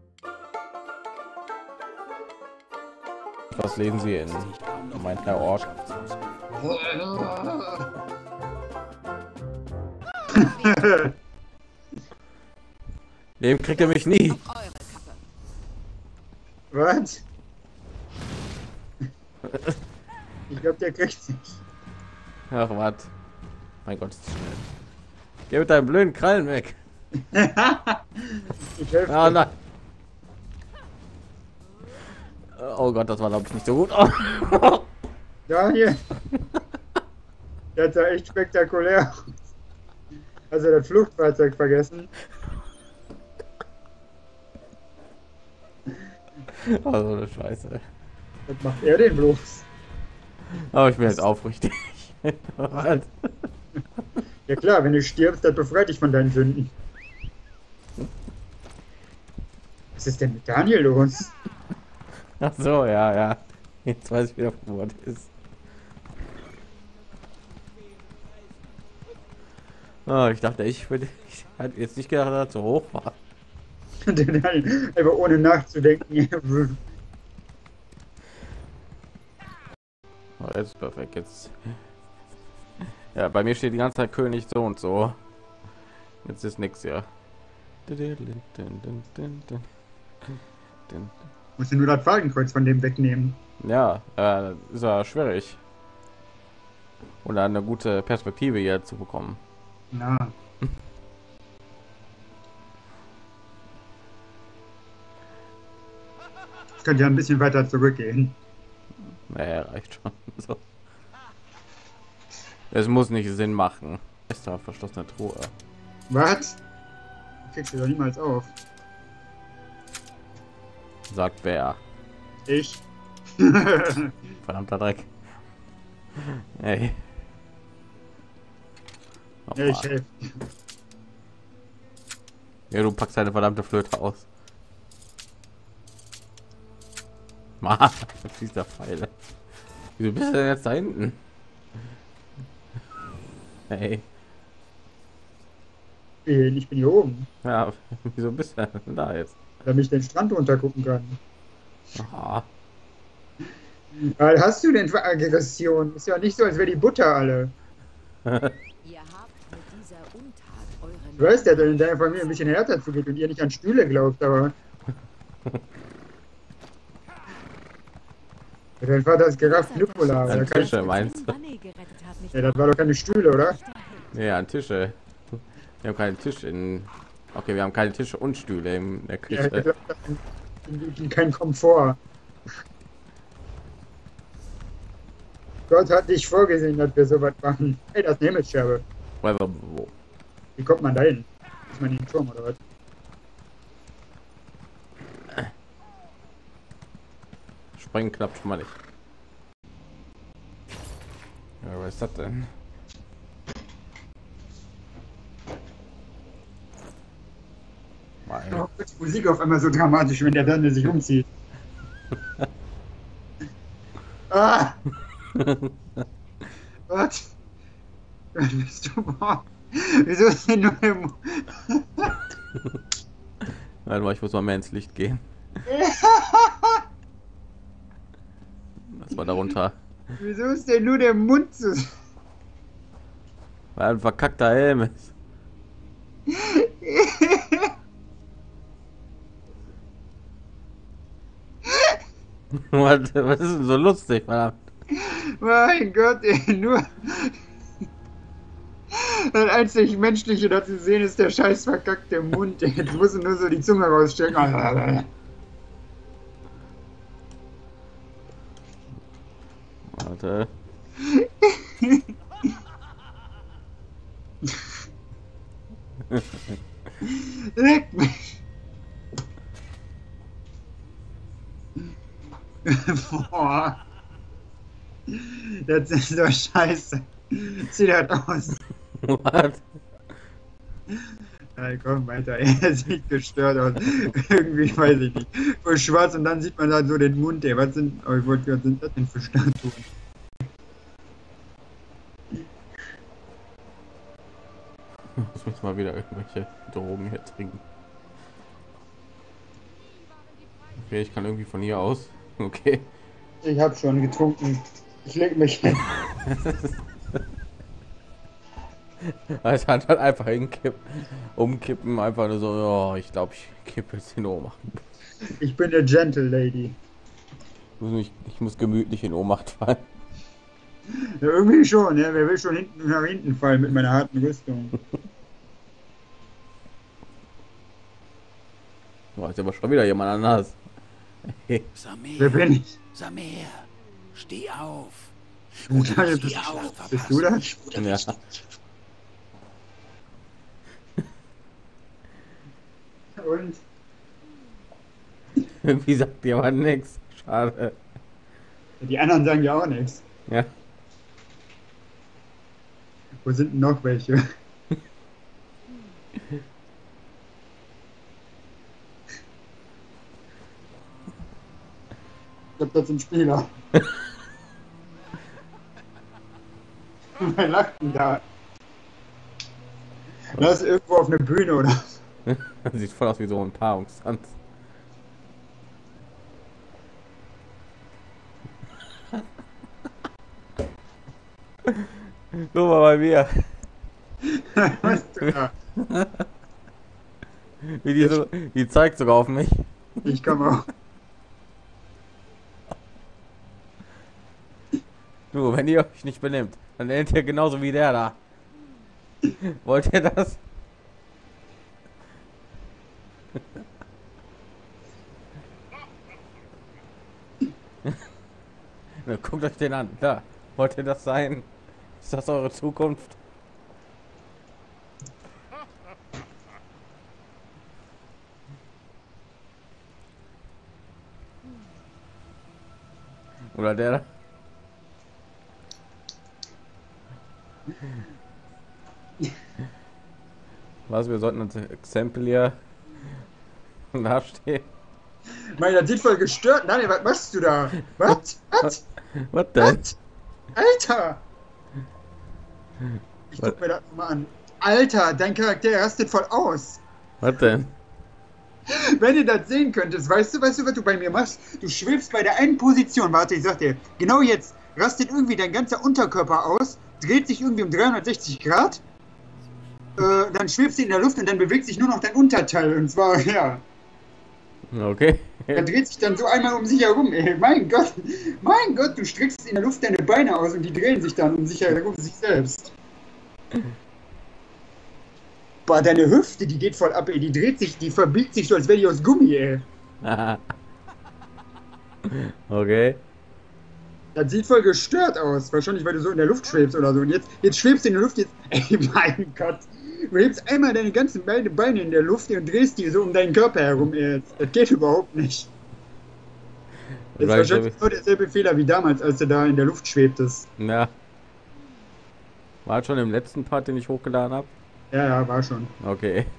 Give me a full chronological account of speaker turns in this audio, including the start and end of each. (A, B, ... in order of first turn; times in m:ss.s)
0:03.5-0:05.8 A
0:04.6-0:05.1 B
0:05.8-0:06.1 B
0:06.6-0:07.9 C
0:10.3-0:11.1 C
0:13.4-0:14.5 A
0:14.5-0:15.1 D
0:16.7-0:17.2 C
0:20.5-0:21.6 C
0:22.5-0:23.1 A
0:23.8-0:24.6 A
0:25.5-0:26.8 A
0:27.3-0:29.4 C
0:29.1-0:29.5 A
0:32.6-0:34.8 A
0:35.5-0:36.0 C
0:37.7-0:39.3 C
0:40.5-0:42.1 C
0:46.6-0:47.8 A
0:48.5-0:49.6 C
0:50.5-0:53.3 A
0:54.5-0:56.7 C
1:00.0-1:01.3 C
1:02.4-1:05.3 A
1:10.0-1:13.1 A
1:14.0-1:16.8 C
1:20.4-1:21.6 A
1:23.1-1:25.2 A
1:26.2-1:27.1 A
1:27.9-1:29.6 A
1:31.6-1:33.4 C
1:33.6-1:35.6 A
1:37.2-1:39.4 A
1:39.9-1:40.3 C
1:46.8-1:48.4 C
1:49.3-1:50.6 A
1:52.7-1:55.5 A
1:56.1-1:56.6 C
1:57.4-1:58.5 C
2:01.1-2:01.8 A
2:02.5-2:02.8 C
2:03.4-2:04.1 C
2:04.4-2:05.1 A
2:06.6-2:07.0 A
2:09.5-2:09.8 A
2:09.6-2:10.4 C
2:12.7-2:14.2 A
2:17.6-2:19.1 A
2:20.0-2:21.2 A
2:23.7-2:24.0 A
2:26.2-2:27.3 C
2:27.4-2:29.4 A
2:29.6-2:31.2 C
2:31.9-2:32.4 A
2:34.0-2:37.5 C
2:38.2-2:38.5 A
2:38.8-2:41.2 D
2:41.2-2:44.5 C
2:48.8-2:50.8 C
2:50.2-2:51.4 A
2:51.0-2:52.3 D
2:52.3-2:53.6 C
2:54.1-2:59.6 A
2:59.3-3:02.0 C
3:05.7-3:08.8 C
3:09.2-3:09.9 A
3:10.6-3:12.6 C
3:17.8-3:18.7 A
3:21.6-3:22.5 A
3:28.3-3:28.6 A
3:28.5-3:31.2 C
3:34.3-3:34.8 C
3:35.3-3:35.7 A
3:36.9-3:37.3 C
3:38.3-3:42.1 C
3:43.8-3:45.2 A
3:45.6-3:46.8 C
3:48.9-3:49.7 A
3:50.2-3:51.8 C
3:53.8-3:55.1 A
3:56.3-3:57.7 C
4:01.7-4:02.0 C
4:02.5-4:04.6 A
4:04.9-4:07.4 C
4:08.9-4:15.1 C
4:19.9-4:20.5 A
4:21.0-4:22.0 C
4:27.0-4:28.4 C
4:32.6-4:33.8 C
4:35.1-4:38.6 C
4:39.0-4:39.6 A
4:41.6-4:49.8 C
4:55.2-4:57.6 A
5:00.8-5:02.9 A
5:03.4-5:05.8 C
5:06.2-5:07.2 A
5:09.1-5:14.8 A
5:15.4-5:16.8 C
5:17.8-5:19.8 A
5:21.0-5:24.7 C
5:29.2-5:30.6 A
5:31.3-5:31.7 A
5:31.8-5:32.3 B
5:32.2-5:32.8 C
5:32.9-5:35.1 B
5:35.7-5:38.4 C
5:35.7-5:37.0 B
5:37.8-5:38.1 A
5:43.2-5:43.6 C
5:45.6-5:47.8 A
5:48.8-5:50.0 C
5:53.2-5:54.2 C
6:02.6-6:03.5 C
6:07.2-6:08.2 C
6:10.3-6:11.8 C
6:12.3-6:14.3 A
6:22.3-6:23.5 A
6:24.3-6:25.5 C
6:25.8-6:26.2 A
6:27.6-6:30.2 A
6:30.0-6:30.7 C
6:35.3-6:38.2 A
6:39.3-6:40.4 A
6:49.0-6:51.5 A
6:52.0-6:53.2 A
7:03.5-7:04.0 A
7:10.9-7:12.6 A
7:13.9-7:14.7 A
7:15.5-7:18.8 C
7:19.1-7:19.8 A
7:19.6-7:20.0 C
7:20.5-7:21.2 C
7:23.3-7:26.8 C
7:27.2-7:27.7 A
7:28.7-7:38.8 C
7:40.0-7:43.6 C
7:44.7-7:45.7 A
7:45.5-7:52.7 C
7:55.6-7:59.6 C
8:00.0-8:00.4 A
8:02.1-8:03.0 A
8:04.1-8:15.5 C
8:17.2-8:17.7 A
8:17.2-8:20.5 C
8:20.6-8:20.9 A
8:22.6-8:24.5 A
8:24.9-8:25.7 C
8:25.8-8:26.3 A